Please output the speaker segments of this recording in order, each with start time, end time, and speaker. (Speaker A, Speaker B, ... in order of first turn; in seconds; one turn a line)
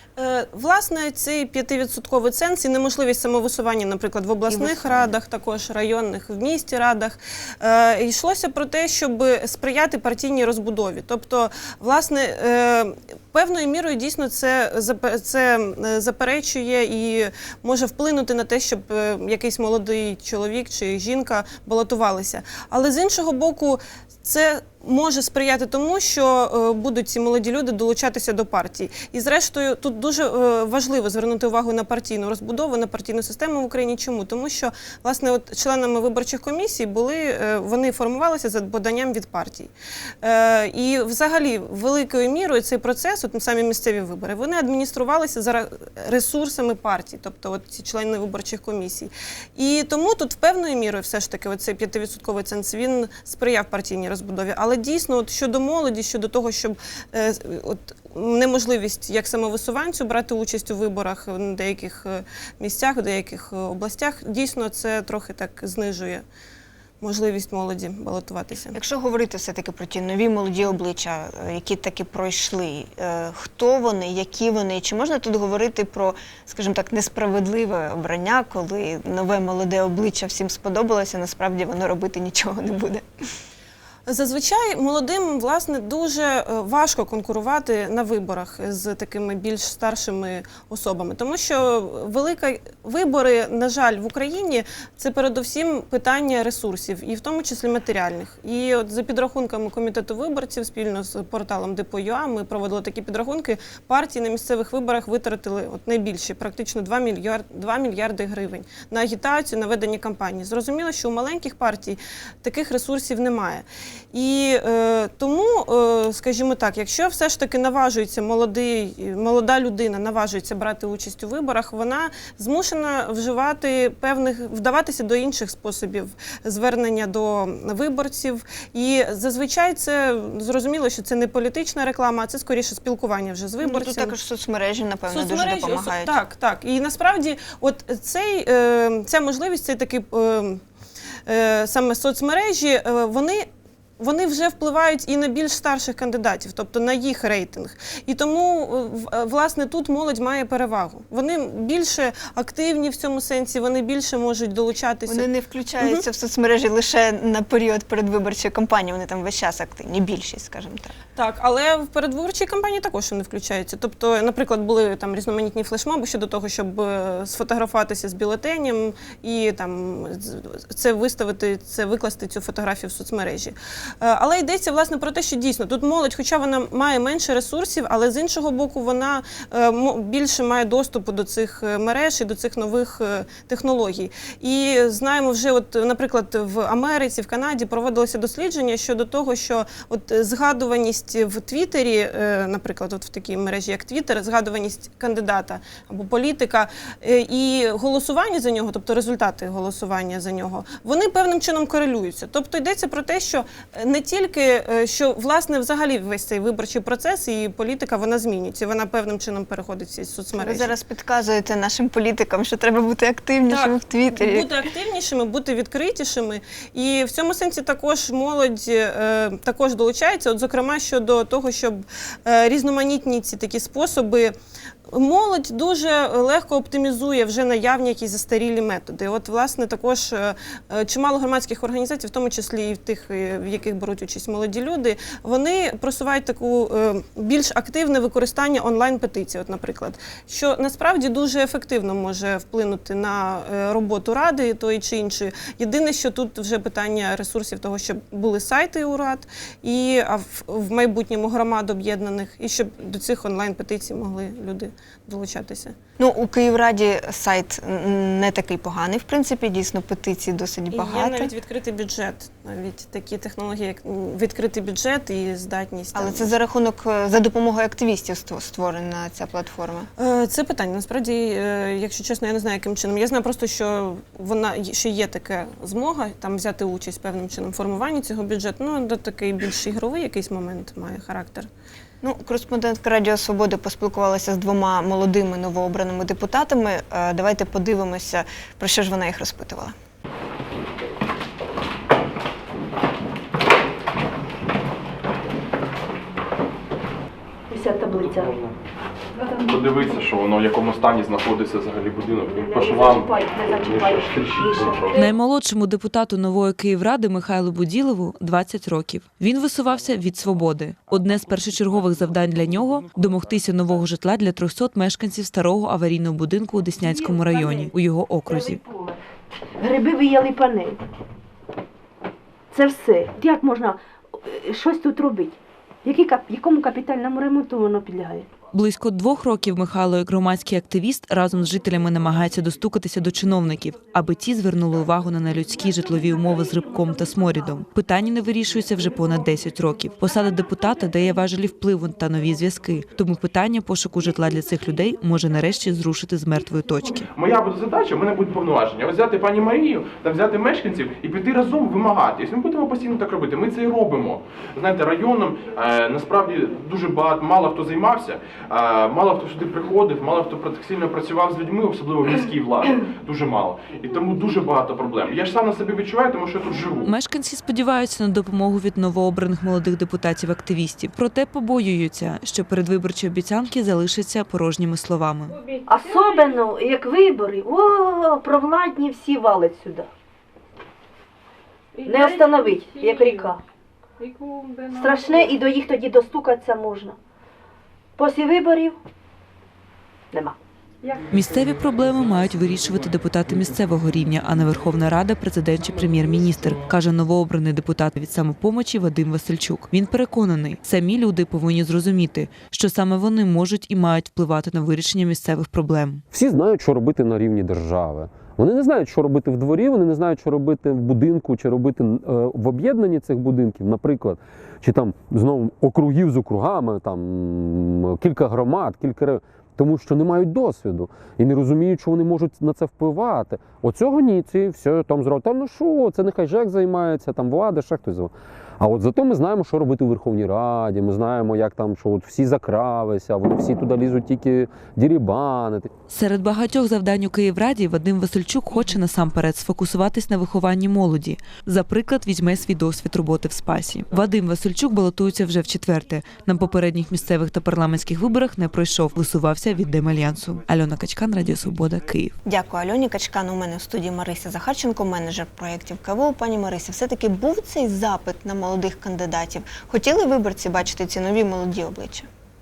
Speaker A: 0.2-39.7
Speaker B: 4.5-5.1
Speaker A: 40.2-66.2
Speaker A: 67.0-68.8
Speaker B: 68.7-83.0
Speaker A: 84.1-134.1
Speaker B: 133.6-136.2
Speaker A: 135.1-140.6
Speaker A: 141.3-143.4
Speaker A: 144.0-155.3
Speaker B: 155.1-160.9
Speaker A: 161.2-210.7
Speaker B: 210.3-214.5
Speaker A: 213.5-224.3
Speaker A: 224.9-255.7
Speaker B: 256.0-261.3
Speaker A: 260.7-266.3
Speaker B: 265.9-269.9
Speaker A: 270.0-281.5
Speaker B: 282.0-289.7
Speaker C: 297.5-298.5
Speaker C: 299.1-299.8
Speaker D: 299.4-305.0
Speaker C: 302.2-305.1
Speaker E: 304.9-318.6
Speaker C: 316.8-317.7
Speaker C: 318.3-319.0
Speaker C: 319.6-320.8
Speaker C: 322.5-328.3
Speaker E: 328.5-347.1
Speaker D: 347.1-366.9
Speaker E: 366.8-375.4
Speaker C: 375.6-379.9
Speaker C: 381.8-383.4
Speaker C: 384.6-387.0
Speaker C: 388.0-388.8
Speaker E: 391.1-406.0
Speaker F: 406.1-435.7
Speaker E: 435.9-452.1
Speaker B: 452.2-462.1